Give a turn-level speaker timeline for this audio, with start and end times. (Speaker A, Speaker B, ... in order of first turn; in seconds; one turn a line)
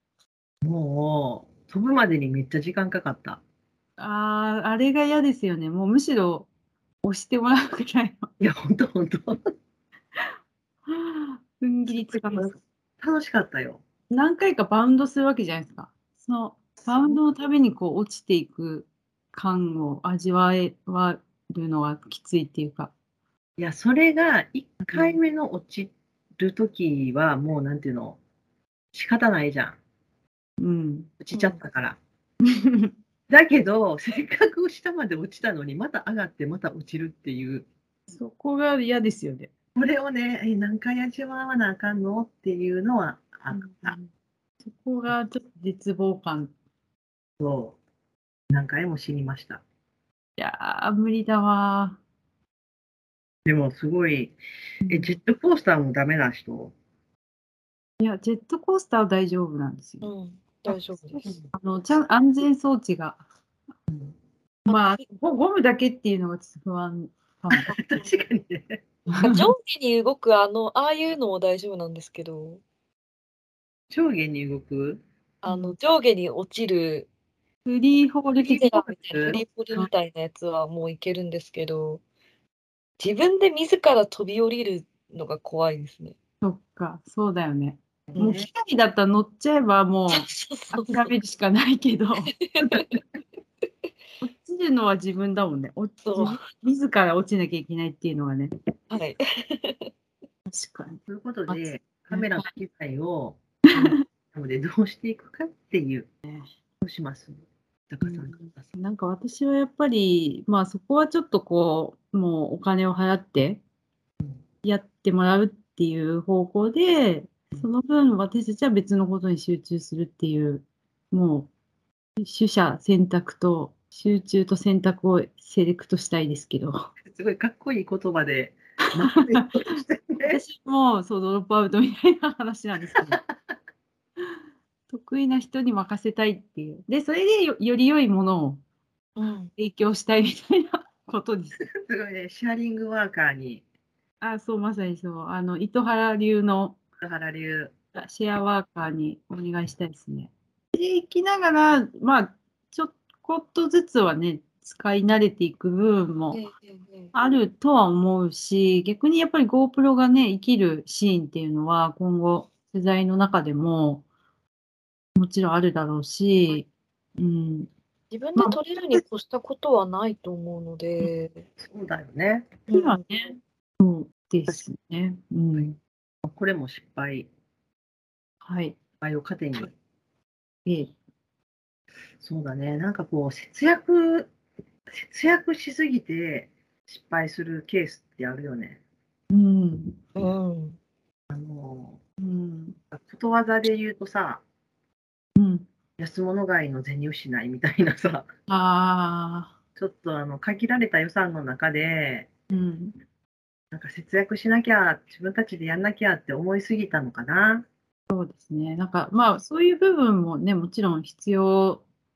Speaker A: 0.6-3.4
Speaker B: 4.0-6.5
Speaker B: 7.0-8.3
Speaker A: 8.4-9.4
Speaker B: 10.9-12.6
Speaker A: 11.9-13.8
Speaker B: 14.1-22.9
Speaker A: 16.9-17.1
Speaker A: 23.6-28.2
Speaker A: 28.9-29.8
Speaker B: 30.6-31.1
Speaker A: 31.2-32.0
Speaker C: 31.3-31.6
Speaker B: 32.5-32.9
Speaker A: 33.3-37.7
Speaker B: 38.1-39.5
Speaker A: 39.7-43.9
Speaker B: 43.5-44.1
Speaker B: 44.6-46.5
Speaker A: 47.4-47.8
Speaker A: 48.5-49.6
Speaker B: 50.4-52.0
Speaker A: 53.5-54.4
Speaker B: 54.8-55.2
Speaker A: 54.9-56.7
Speaker B: 58.0-60.1
Speaker C: 60.0-61.3
Speaker B: 60.7-63.2
Speaker B: 64.7-67.7
Speaker C: 64.7-64.9
Speaker A: 67.5-68.8
Speaker B: 69.1-69.4
Speaker C: 69.2-72.6
Speaker A: 73.9-75.0
Speaker C: 75.4-77.1
Speaker B: 75.5-75.7
Speaker B: 77.7-79.9
Speaker C: 78.4-82.0
Speaker A: 79.1-79.4
Speaker C: 83.0-86.2
Speaker B: 86.4-92.3
Speaker A: 88.1-88.5
Speaker C: 90.1-91.1
Speaker C: 92.3-93.0
Speaker B: 94.2-98.5
Speaker C: 96.1-96.4
Speaker C: 98.9-99.9
Speaker B: 100.5-102.5
Speaker A: 101.1-106.1
Speaker B: 103.7-104.0
Speaker A: 106.8-108.7
Speaker B: 108.0-113.6
Speaker B: 114.6-121.5
Speaker B: 122.2-126.9
Speaker A: 127.1-130.4
Speaker B: 129.1-129.5
Speaker B: 130.2-133.2
Speaker A: 132.9-133.2
Speaker B: 134.9-138.6
Speaker C: 139.2-139.5
Speaker B: 139.6-141.6
Speaker A: 141.6-143.6
Speaker B: 144.2-146.8
Speaker A: 147.0-147.7
Speaker B: 147.9-156.4
Speaker C: 156.3-157.1
Speaker B: 157.1-164.0
Speaker B: 165.2-167.7
Speaker C: 168.1-171.4
Speaker A: 171.6-172.6
Speaker C: 172.7-173.0
Speaker B: 172.7-175.8
Speaker A: 176.2-177.3
Speaker B: 178.4-178.8
Speaker A: 179.0-179.7
Speaker B: 180.7-180.9
Speaker A: 182.2-184.3
Speaker A: 184.9-188.8
Speaker B: 189.3-190.0
Speaker C: 190.2-190.8
Speaker A: 191.3-192.0
Speaker B: 192.2-192.8
Speaker A: 192.9-194.4
Speaker B: 195.3-195.7
Speaker A: 196.0-198.3
Speaker B: 198.5-199.5
Speaker A: 199.8-202.3
Speaker B: 202.5-202.9
Speaker A: 203.7-207.7
Speaker B: 208.1-211.8